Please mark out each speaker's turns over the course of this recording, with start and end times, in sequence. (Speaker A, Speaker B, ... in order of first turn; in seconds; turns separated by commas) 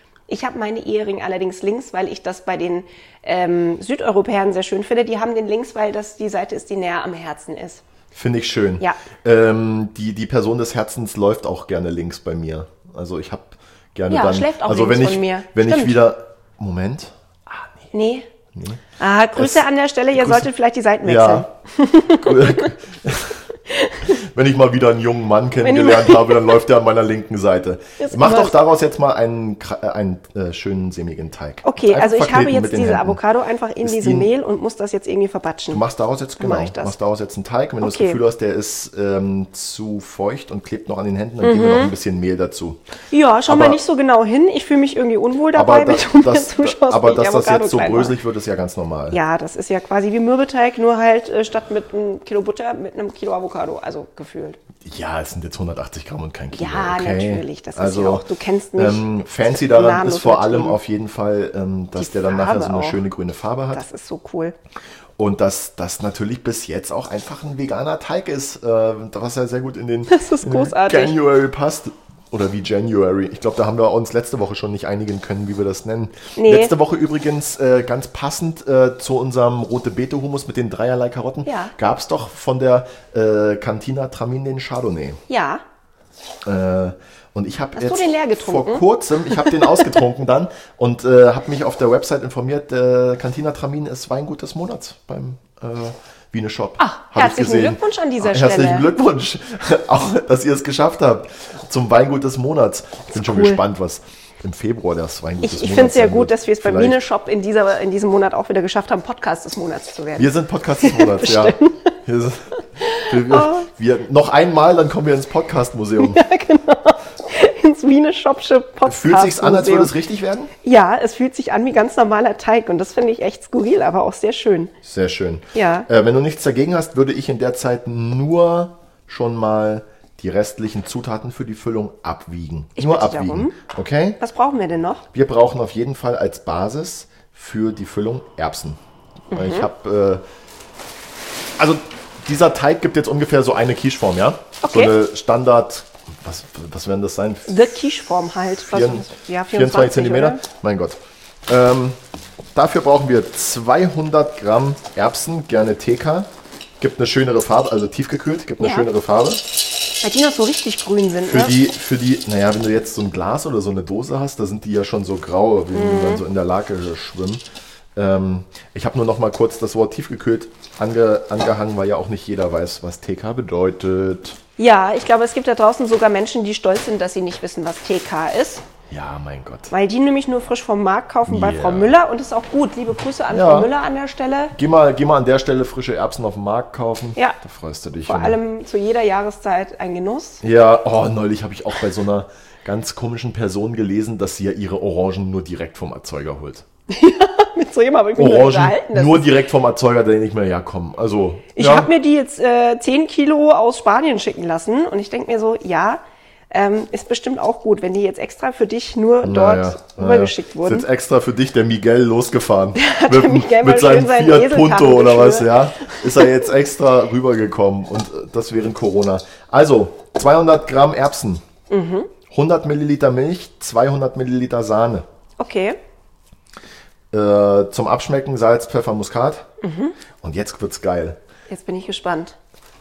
Speaker A: 0.3-7.8, Speaker B: 8.1-17.9, Speaker A: 14.1-16.0, Speaker A: 17.9-18.3, Speaker B: 18.6-18.8, Speaker A: 19.0-22.7, Speaker B: 19.4-20.5, Speaker B: 21.0-21.5, Speaker B: 22.1-23.4, Speaker A: 23.7-24.2, Speaker B: 24.1-33.2, Speaker A: 25.6-26.6, Speaker A: 28.0-28.6, Speaker A: 31.6-35.8, Speaker B: 33.8-34.3, Speaker B: 35.7-42.8, Speaker A: 36.4-37.0, Speaker A: 37.8-38.2, Speaker A: 41.4-41.9, Speaker A: 43.1-48.2, Speaker B: 43.5-43.8, Speaker B: 45.5-49.2, Speaker A: 49.1-54.6, Speaker B: 54.8-58.2, Speaker A: 56.5-60.8, Speaker B: 58.8-63.8, Speaker A: 62.0-63.0, Speaker A: 63.7-64.5, Speaker B: 65.2-85.2, Speaker A: 70.1-71.2, Speaker A: 76.4-76.7, Speaker A: 81.5-81.7, Speaker A: 85.3-85.6, Speaker B: 86.5-107.0, Speaker A: 87.8-90.0, Speaker A: 96.8-98.9, Speaker A: 103.1-103.6, Speaker A: 105.4-112.0, Speaker B: 110.2-116.2, Speaker A: 112.8-113.7, Speaker A: 116.0-119.9, Speaker B: 118.8-120.5, Speaker A: 120.6-124.7, Speaker B: 124.8-134.2, Speaker A: 125.5-125.9, Speaker A: 132.8-133.6, Speaker A: 134.2-135.1, Speaker B: 135.1-138.8, Speaker A: 139.3-139.7, Speaker B: 139.3-140.2, Speaker B: 141.6-147.6, Speaker A: 144.6-144.9, Speaker A: 147.5-150.4, Speaker B: 148.7-152.0, Speaker B: 152.6-156.3, Speaker B: 156.8-159.4, Speaker A: 158.6-158.9, Speaker A: 160.0-161.6, Speaker B: 161.3-167.4, Speaker A: 165.7-166.2, Speaker B: 167.9-174.4, Speaker A: 174.6-178.7, Speaker B: 178.9-179.7, Speaker A: 179.7-184.6, Speaker B: 181.3-182.0, Speaker B: 183.3-183.7, Speaker B: 184.6-188.4, Speaker A: 188.1-190.4, Speaker B: 190.4-196.7, Speaker A: 196.9-199.4, Speaker B: 198.2-201.9, Speaker A: 201.6-210.9, Speaker B: 209.2-221.4, Speaker A: 212.8-216.5, Speaker A: 221.7-222.1, Speaker B: 222.3-225.1, Speaker A: 225.4-225.8, Speaker B: 227.1-229.5, Speaker A: 229.6-230.0, Speaker B: 230.2-231.2, Speaker A: 231.5-232.4